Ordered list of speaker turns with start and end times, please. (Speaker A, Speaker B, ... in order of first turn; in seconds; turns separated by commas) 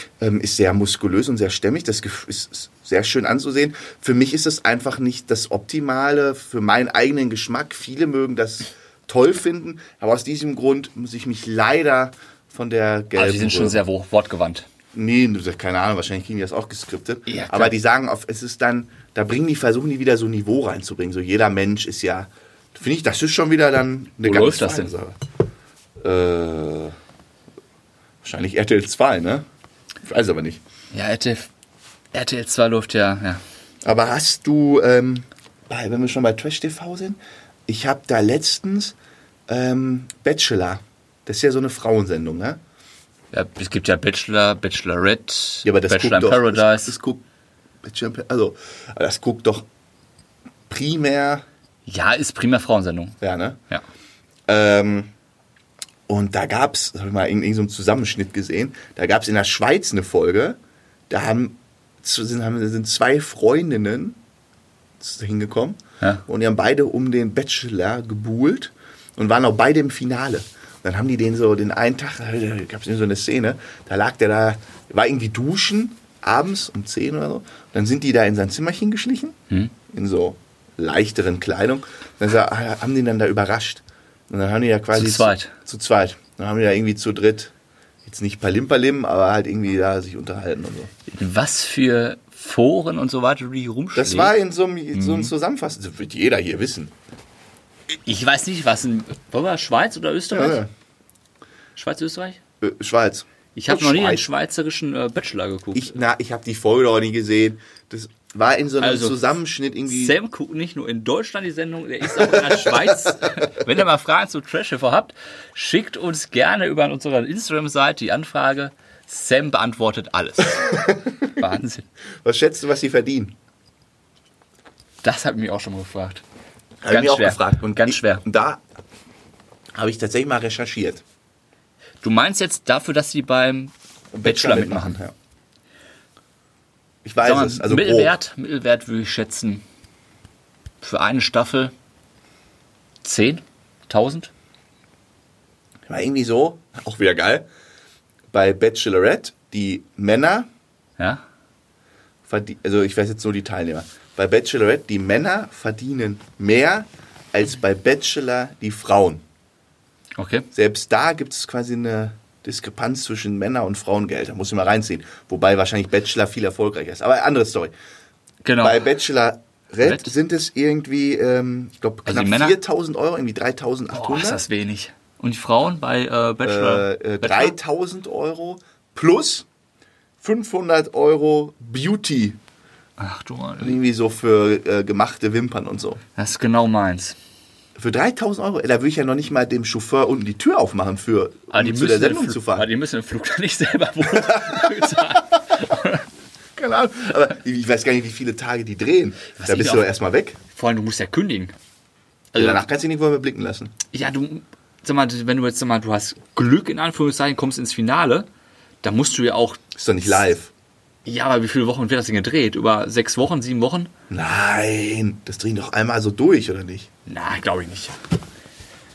Speaker A: 0.2-13.8, Speaker B: 13.1-14.7, Speaker A: 14.9-25.2, Speaker B: 17.3-17.7, Speaker B: 24.2-24.9, Speaker A: 26.0-26.9, Speaker A: 28.2-29.4, Speaker A: 30.0-30.6, Speaker B: 30.9-31.5, Speaker B: 32.1-33.4, Speaker A: 33.8-38.9, Speaker A: 39.5-42.6, Speaker B: 43.3-46.9, Speaker A: 45.6-47.2, Speaker A: 47.8-49.6, Speaker A: 50.7-51.4, Speaker B: 51.9-53.2, Speaker A: 53.2-53.6, Speaker A: 54.5-55.1, Speaker A: 56.1-60.6, Speaker A: 61.1-64.2, Speaker A: 65.0-79.4, Speaker A: 79.9-87.5, Speaker B: 84.9-85.5, Speaker A: 88.0-90.9, Speaker B: 91.1-94.3, Speaker A: 93.9-96.9, Speaker B: 94.9-95.3, Speaker B: 97.9-100.6, Speaker A: 100.3-100.7, Speaker B: 101.8-102.4, Speaker A: 102.6-104.2, Speaker B: 103.5-105.9, Speaker A: 105.7-110.2, Speaker B: 108.8-109.2, Speaker B: 109.9-121.9, Speaker A: 112.2-113.1, Speaker A: 120.6-121.3, Speaker A: 122.2-123.3, Speaker B: 125.0-126.2, Speaker A: 126.8-128.6, Speaker B: 126.9-128.2, Speaker A: 129.8-131.0, Speaker B: 132.0-133.7, Speaker A: 134.1-135.1, Speaker B: 134.2-135.0, Speaker A: 137.0-138.1, Speaker B: 137.2-139.6, Speaker B: 140.8-141.7, Speaker B: 143.0-144.3, Speaker A: 145.9-147.4, Speaker A: 148.3-150.5, Speaker B: 151.0-151.2, Speaker A: 152.3-159.2, Speaker B: 160.2-160.5, Speaker A: 160.5-167.7, Speaker B: 168.4-168.9, Speaker A: 168.6-174.4, Speaker B: 169.8-170.1, Speaker B: 172.1-172.6, Speaker B: 173.9-177.5, Speaker A: 176.4-179.4, Speaker A: 180.2-182.4, Speaker B: 183.0-183.8, Speaker A: 183.6-186.0, Speaker B: 186.2-187.2, Speaker A: 187.8-192.7, Speaker B: 191.5-196.1, Speaker A: 194.1-195.2, Speaker A: 196.6-200.4, Speaker B: 199.3-199.9, Speaker B: 200.5-201.5, Speaker B: 202.3-202.6, Speaker A: 202.3-203.7, Speaker B: 203.9-208.3, Speaker B: 208.8-210.1, Speaker A: 209.7-210.5, Speaker B: 211.0-213.9, Speaker A: 214.1-216.9, Speaker B: 217.1-217.9